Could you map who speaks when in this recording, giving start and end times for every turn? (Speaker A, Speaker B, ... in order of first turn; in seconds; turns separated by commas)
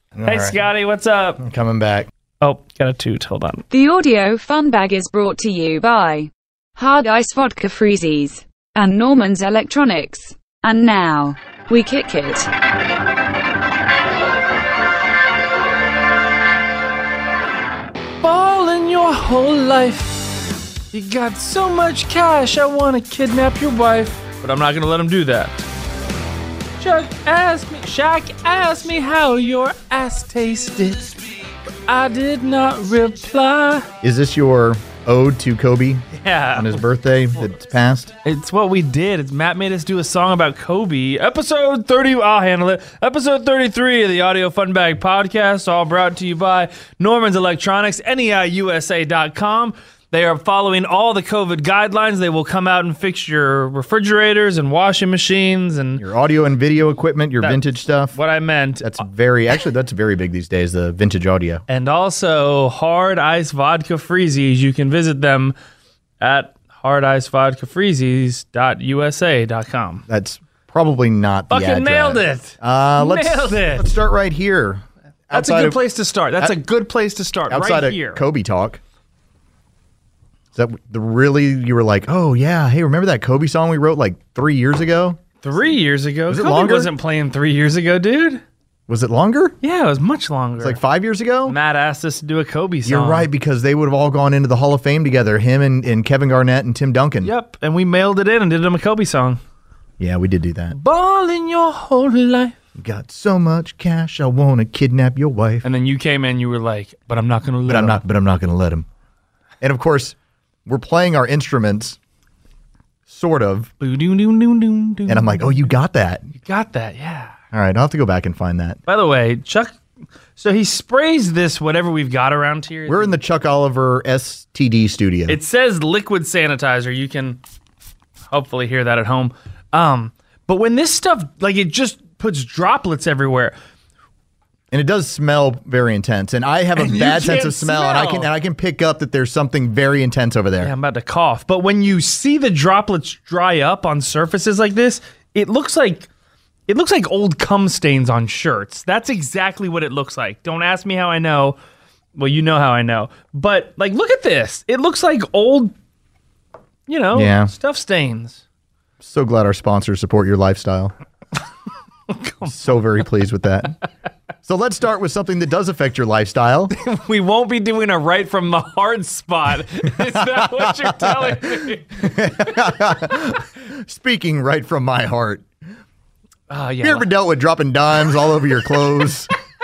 Speaker A: 0.1-0.6, Speaker B: 0.3-1.4, Speaker A: 1.4-2.1, Speaker B: 2.4-3.6, Speaker C: 3.7-12.5, Speaker B: 18.2-20.3, Speaker B: 20.9-25.6, Speaker B: 26.8-31.2, Speaker B: 31.9-33.9, Speaker A: 34.0-38.1, Speaker B: 36.1-36.8, Speaker B: 38.2-56.0, Speaker A: 56.0-58.1, Speaker B: 58.1-59.0, Speaker A: 58.8-61.6, Speaker B: 61.7-65.5, Speaker B: 66.2-70.0, Speaker A: 70.1-75.8, Speaker B: 71.5-73.9, Speaker B: 75.3-78.2, Speaker A: 77.5-78.8, Speaker A: 80.5-85.2, Speaker B: 85.4-88.4, Speaker A: 86.3-86.9, Speaker A: 88.9-89.6, Speaker B: 89.6-90.8, Speaker A: 90.6-91.6, Speaker B: 91.5-93.3, Speaker A: 92.8-97.3, Speaker B: 97.2-99.4, Speaker A: 100.0-100.8, Speaker B: 100.7-102.6, Speaker A: 102.8-105.7, Speaker B: 105.6-108.0, Speaker A: 107.7-108.9, Speaker A: 109.6-112.0, Speaker A: 113.1-113.7, Speaker B: 113.8-115.7, Speaker A: 115.1-116.3, Speaker B: 116.4-117.3, Speaker A: 117.5-118.8, Speaker B: 118.9-119.8, Speaker B: 120.4-123.2, Speaker A: 122.9-125.4, Speaker B: 125.3-127.4, Speaker B: 128.3-133.6, Speaker A: 134.7-140.7, Speaker B: 136.8-138.3, Speaker B: 140.6-146.1, Speaker B: 146.7-151.6, Speaker B: 152.2-155.7, Speaker B: 156.9-158.4, Speaker A: 157.1-157.5, Speaker A: 159.0-160.9, Speaker B: 162.1-162.5, Speaker A: 162.4-163.8, Speaker A: 164.4-166.7, Speaker B: 166.7-172.5, Speaker A: 170.2-171.4, Speaker A: 172.0-175.5, Speaker B: 176.5-177.1, Speaker A: 176.8-179.3